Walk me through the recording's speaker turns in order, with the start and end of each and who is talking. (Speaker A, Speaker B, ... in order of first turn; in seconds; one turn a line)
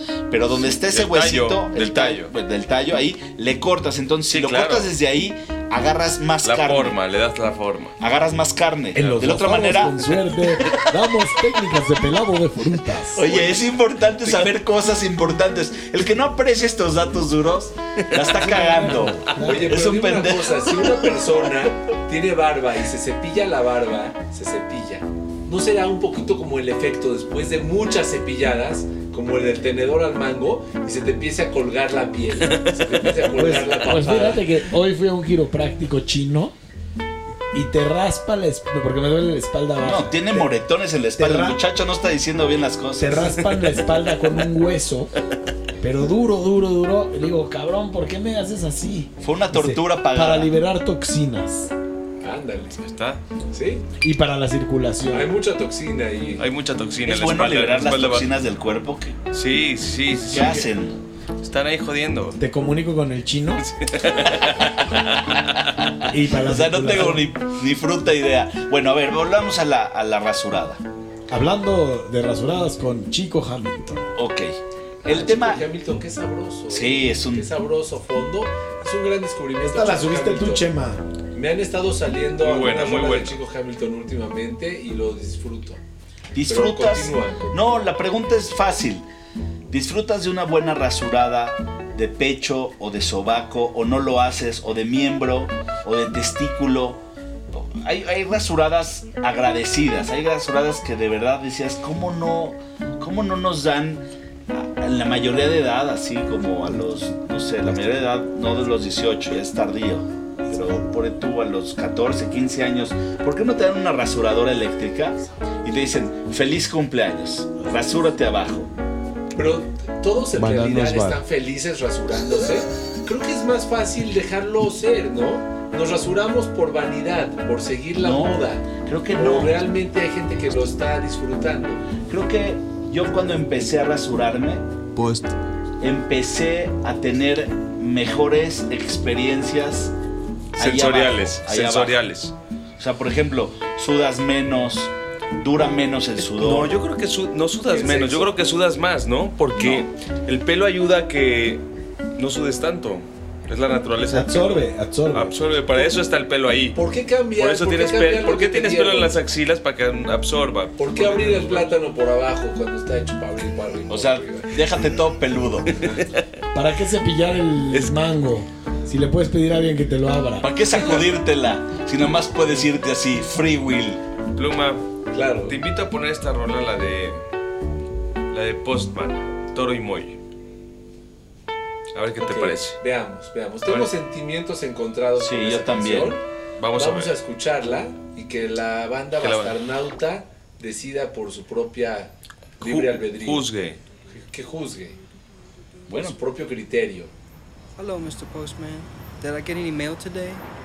Speaker A: 0.3-7.0
Speaker B: 0.6-2.3
Speaker B: 4.3-4.9
Speaker B: 6.4-7.9
Speaker A: 8.0-10.1
Speaker C: 8.9-13.2
Speaker A: 13.1-20.7
Speaker D: 13.2-13.6
Speaker D: 14.2-14.6
Speaker B: 18.1-18.5
Speaker C: 18.4-19.7
Speaker D: 19.4-34.5
Speaker B: 32.6-33.1
Speaker C: 33.3-36.5
Speaker C: 37.5-40.5
Speaker A: 39.8-43.4
Speaker C: 41.2-41.6
Speaker C: 43.0-45.1
Speaker C: 45.8-51.7
Speaker A: 49.2-50.5
Speaker D: 52.2-52.8
Speaker B: 52.8-53.2
Speaker D: 53.5-53.8
Speaker C: 54.0-55.3
Speaker D: 55.1-56.4
Speaker B: 56.4-58.3
Speaker A: 57.0-59.2
Speaker B: 59.3-60.6
Speaker A: 60.2-61.0
Speaker B: 61.4-62.4
Speaker C: 62.4-63.6
Speaker B: 63.6-65.9
Speaker C: 66.1-67.2
Speaker A: 66.3-70.8
Speaker C: 71.3-74.0
Speaker A: 74.2-75.7
Speaker D: 75.0-80.7
Speaker A: 76.7-77.5
Speaker C: 79.6-81.0
Speaker D: 81.3-85.8
Speaker B: 82.4-83.4
Speaker A: 86.3-89.0
Speaker D: 86.5-87.6
Speaker A: 89.7-118.7
Speaker D: 119.3-131.9
Speaker B: 120.3-121.2
Speaker A: 128.0-129.6
Speaker A: 132.1-134.6
Speaker B: 134.9-135.3
Speaker A: 135.8-139.9
Speaker A: 140.6-142.0
Speaker B: 140.6-142.3
Speaker A: 142.8-146.8
Speaker B: 146.2-151.6
Speaker D: 147.7-148.3
Speaker A: 149.5-149.9
Speaker B: 152.2-156.8
Speaker C: 154.1-155.3
Speaker D: 156.7-159.2
Speaker B: 157.3-161.8
Speaker D: 160.8-164.6
Speaker A: 163.9-165.8
Speaker B: 165.8-166.2
Speaker C: 166.5-170.5
Speaker A: 170.4-174.0
Speaker B: 174.3-174.8
Speaker D: 175.1-175.6
Speaker B: 175.4-177.2
Speaker B: 178.3-180.2
Speaker B: 181.9-182.8
Speaker D: 182.2-186.2
Speaker B: 183.6-183.9
Speaker A: 185.2-186.2
Speaker B: 186.6-187.1
Speaker D: 186.7-193.5
Speaker B: 189.2-189.6
Speaker B: 192.6-193.8
Speaker D: 194.1-195.0
Speaker A: 195.9-196.2
Speaker D: 196.0-197.1
Speaker E: 197.8-200.4